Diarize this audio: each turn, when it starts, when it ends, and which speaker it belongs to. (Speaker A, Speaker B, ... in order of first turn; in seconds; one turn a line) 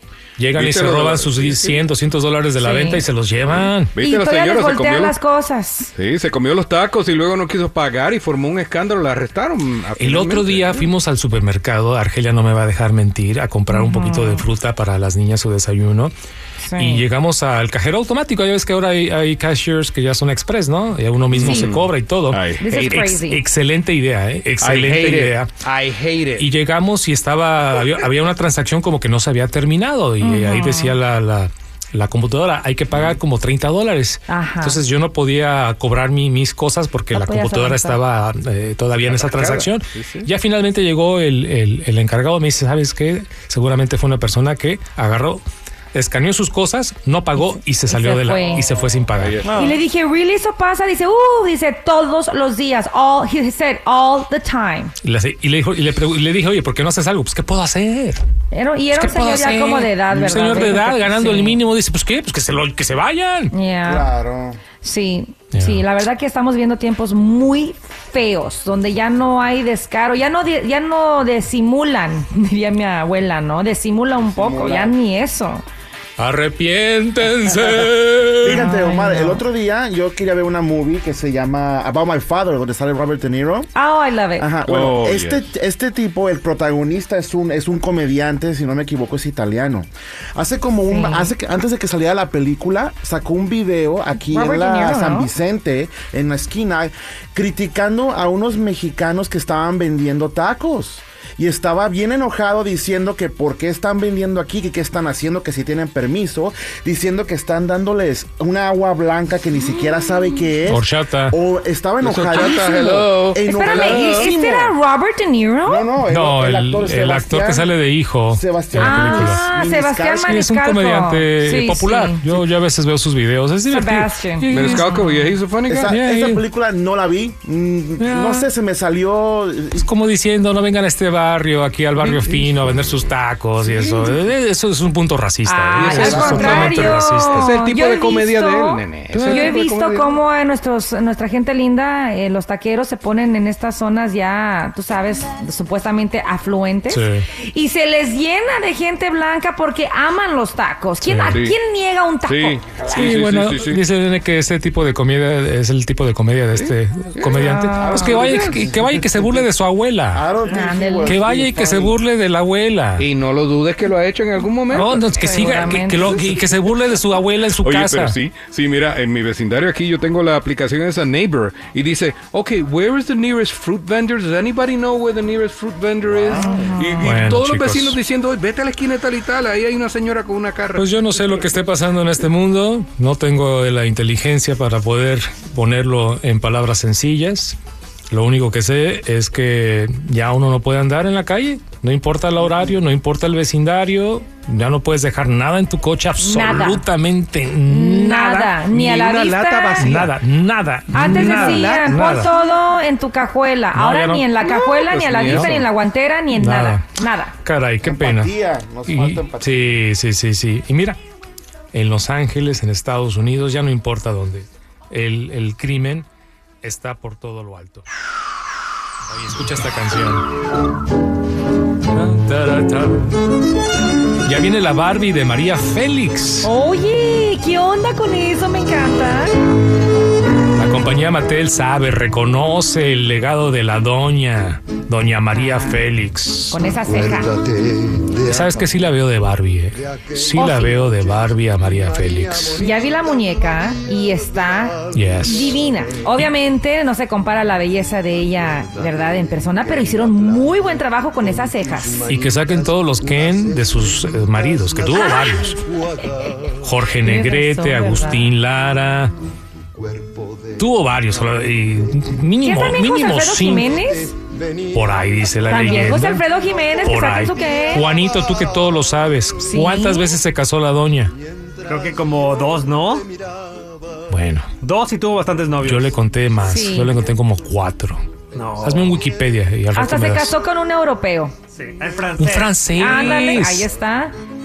Speaker A: 0.4-3.9
Speaker B: 0.5-1.9
Speaker C: 2.6-3.1
Speaker B: 3.6-5.2
Speaker C: 4.0-5.9
Speaker B: 5.9-10.9
Speaker A: 9.9-16.1
Speaker C: 13.7-14.4
Speaker C: 16.6-17.0
Speaker A: 16.8-25.5
Speaker B: 21.3-23.1
Speaker C: 21.4-21.7
Speaker C: 22.6-23.4
Speaker B: 24.6-26.5
Speaker A: 26.4-45.4
Speaker C: 30.2-31.0
Speaker C: 34.3-34.8
Speaker C: 37.1-38.0
Speaker B: 39.0-40.3
Speaker A: 45.9-49.4
Speaker C: 47.4-48.7
Speaker B: 49.1-49.7
Speaker D: 49.5-49.8
Speaker C: 49.5-54.9
Speaker A: 55.0-58.2
Speaker C: 58.5-61.6
Speaker A: 58.9-63.5
Speaker D: 60.1-60.7
Speaker C: 63.5-64.1
Speaker D: 63.8-64.6
Speaker C: 64.8-75.6
Speaker A: 65.5-65.8
Speaker D: 74.2-75.0
Speaker A: 76.2-78.7
Speaker D: 78.4-83.7
Speaker C: 78.5-79.4
Speaker C: 83.8-84.5
Speaker D: 84.4-114.8
Speaker B: 84.7-85.5
Speaker C: 90.9-91.3
Speaker C: 94.2-95.3
Speaker A: 110.7-111.4
Speaker B: 112.0-114.3
Speaker C: 113.4-115.9
Speaker D: 115.7-117.7
Speaker A: 116.1-119.4
Speaker D: 118.3-120.4
Speaker C: 118.8-122.2
Speaker A: 120.2-126.5
Speaker C: 123.7-125.0
Speaker B: 124.5-125.9
Speaker D: 125.7-129.9
Speaker A: 128.0-128.5
Speaker A: 129.7-137.6
Speaker B: 132.0-133.0
Speaker B: 133.7-134.1
Speaker C: 135.4-152.6
Speaker B: 135.8-140.1
Speaker D: 136.0-136.6
Speaker A: 139.1-139.6
Speaker A: 146.9-147.3
Speaker A: 151.0-151.5
Speaker B: 151.3-151.6
Speaker B: 152.2-153.8
Speaker D: 152.9-153.2
Speaker A: 152.9-160.2
Speaker B: 157.1-158.7
Speaker C: 157.3-158.1
Speaker D: 157.8-159.5
Speaker D: 160.1-162.0
Speaker C: 160.5-161.1
Speaker A: 161.0-163.1
Speaker B: 163.0-165.1
Speaker A: 164.7-168.2
Speaker C: 164.7-166.3
Speaker B: 167.6-181.4
Speaker D: 176.2-176.7
Speaker C: 176.4-177.1
Speaker A: 177.0-178.0
Speaker A: 180.8-187.6
Speaker A: 188.1-198.6
Speaker C: 196.2-196.8
Speaker C: 197.7-199.9
Speaker B: 198.7-200.0
Speaker A: 199.8-202.3
Speaker E: 199.9-200.1
Speaker C: 200.9-207.3
Speaker E: 201.0-202.2
Speaker A: 203.7-204.3
Speaker B: 204.4-205.7
Speaker A: 205.2-205.6
Speaker A: 206.3-206.9
Speaker A: 207.4-208.3
Speaker D: 207.8-209.7
Speaker A: 208.9-211.0
Speaker A: 211.7-216.1
Speaker A: 216.6-217.8
Speaker A: 219.1-220.2
Speaker A: 221.9-223.2
Speaker A: 224.2-226.5
Speaker C: 226.4-229.4
Speaker A: 230.5-236.6
Speaker C: 235.3-235.8
Speaker C: 236.5-237.4
Speaker A: 238.2-242.6
Speaker C: 240.3-240.8
Speaker C: 242.5-252.1
Speaker A: 244.9-245.6
Speaker A: 252.0-255.6
Speaker C: 254.9-256.4
Speaker A: 256.6-259.1
Speaker C: 257.0-258.3
Speaker A: 260.6-263.7
Speaker C: 262.4-264.1
Speaker A: 264.7-266.2
Speaker C: 265.5-267.9
Speaker A: 266.8-271.1
Speaker C: 269.4-270.1
Speaker E: 271.6-273.1
Speaker A: 274.1-274.5
Speaker E: 274.6-276.0
Speaker A: 275.6-278.0
Speaker C: 276.4-277.0
Speaker E: 278.3-279.0
Speaker A: 278.6-280.3
Speaker C: 279.7-281.4
Speaker E: 281.5-282.5
Speaker A: 282.2-283.7
Speaker C: 282.7-284.1